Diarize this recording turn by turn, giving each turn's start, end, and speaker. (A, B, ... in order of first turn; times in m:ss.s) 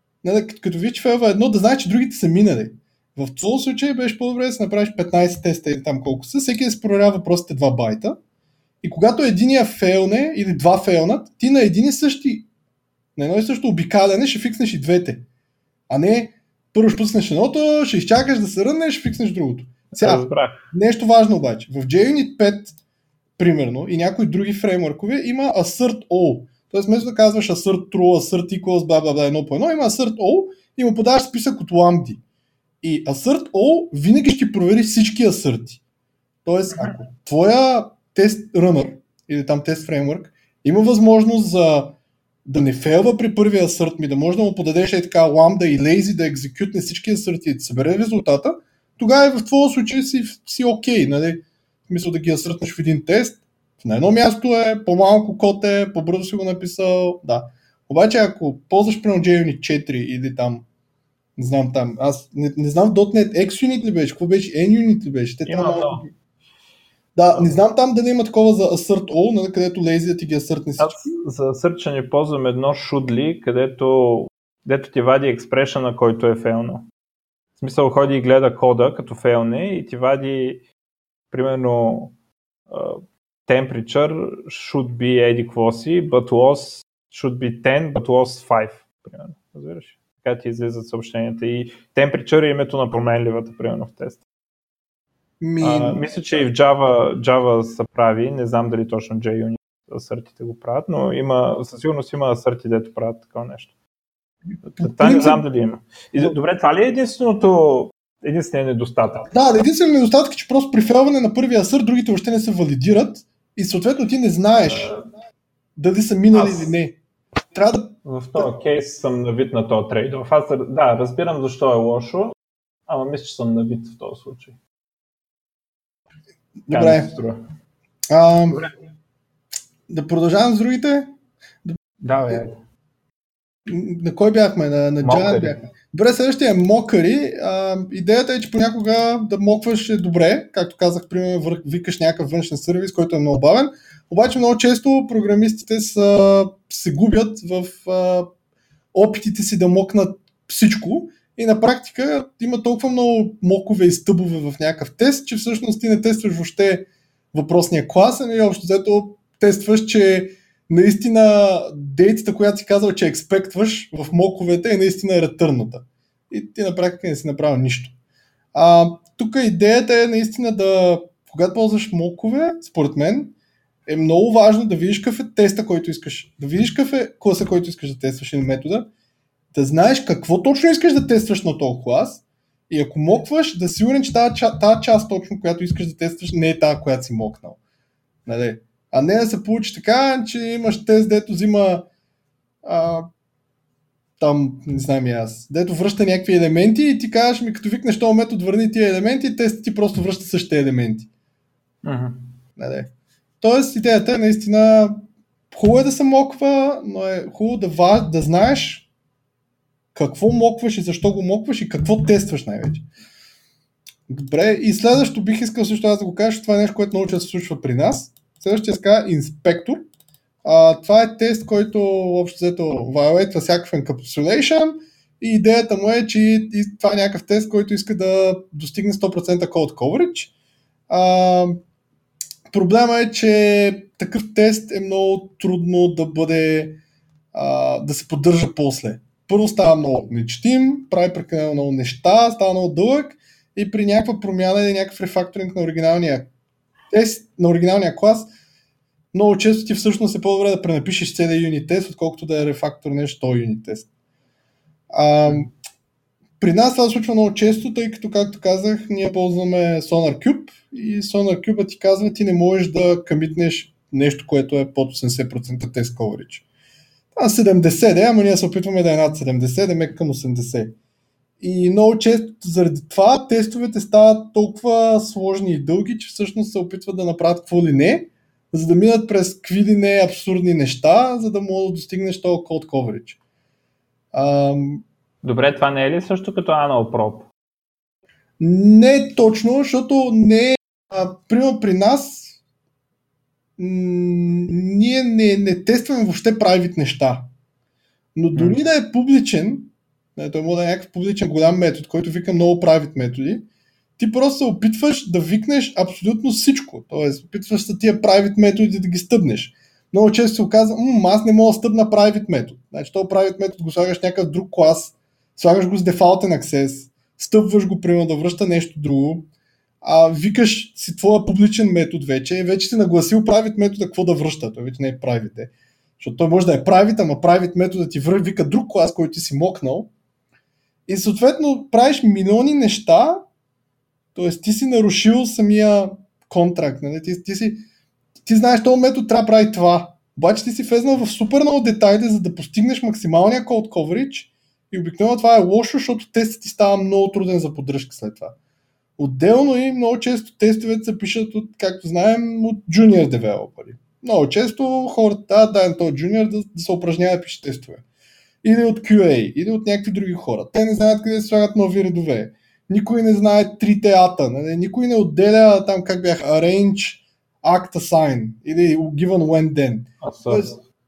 0:00.2-0:08.2 A
0:08.8-0:12.4 A
0:13.2-0:15.2 A
0:15.9-0:22.7 A
0:19.9-0:20.6 B
0:23.4-0:32.2 A
0:32.8-0:35.8 A
0:36.4-1:00.6 A
0:36.7-0:37.0 B
1:01.4-1:06.1 A
1:05.4-1:06.0 B
1:07.1-1:11.2 A
1:07.3-1:07.6 B
1:10.8-1:16.9 B
1:17.6-1:20.6 B
1:21.3-1:22.1 B
1:22.7-1:34.2 B
1:35.4-1:36.0 A
1:35.6-1:43.7 B
1:44.6-1:49.3 B
1:44.8-1:45.4 A
1:49.3-1:54.9 A
1:54.7-1:55.1 B
1:55.8-1:57.0 A
1:56.3-1:56.7 B
1:57.5-1:58.5 A
1:58.0-2:02.3 B
2:02.9-2:04.6 B
2:06.6-2:07.1 A
2:06.7-2:07.4 B
2:08.1-2:08.6 A
2:09.9-2:11.1 A
2:12.0-2:12.6 B
2:13.6-2:28.3 A
2:15.0-2:15.6 B
2:28.9-2:47.9 A
2:48.5-2:53.3 A
2:53.8-2:58.9 A
2:59.5-3:07.6 A
3:08.2-3:11.9 A
3:12.6-3:13.1 A
3:14.2-3:21.1 A
3:21.8-3:22.4 B
3:22.6-3:22.9 A
3:23.4-3:28.8 A
3:29.9-3:32.8 A
3:34.1-3:39.8 A
3:40.4-3:50.3 A
3:50.9-3:51.6 A
3:52.5-3:56.8 A
3:57.3-4:06.3 A
4:06.9-4:08.3 A
4:09.1-4:13.9 A
4:14.9-4:15.5 A
4:16.4-4:26.4 A
4:27.1-4:30.7 A
4:31.4-4:43.2 A
4:44.1-4:44.8 A
4:45.2-4:47.3 B
4:48.4-4:52.4 A
4:53.6-4:57.3 A
4:58.1-5:03.4 A
5:04.0-5:19.3 A
5:19.8-5:29.9 A
5:30.9-5:33.2 A
5:34.1-5:37.6 A
5:38.2-5:48.3 A
5:49.0-5:57.8 A
5:58.4-6:10.5 A
6:10.0-6:10.6 B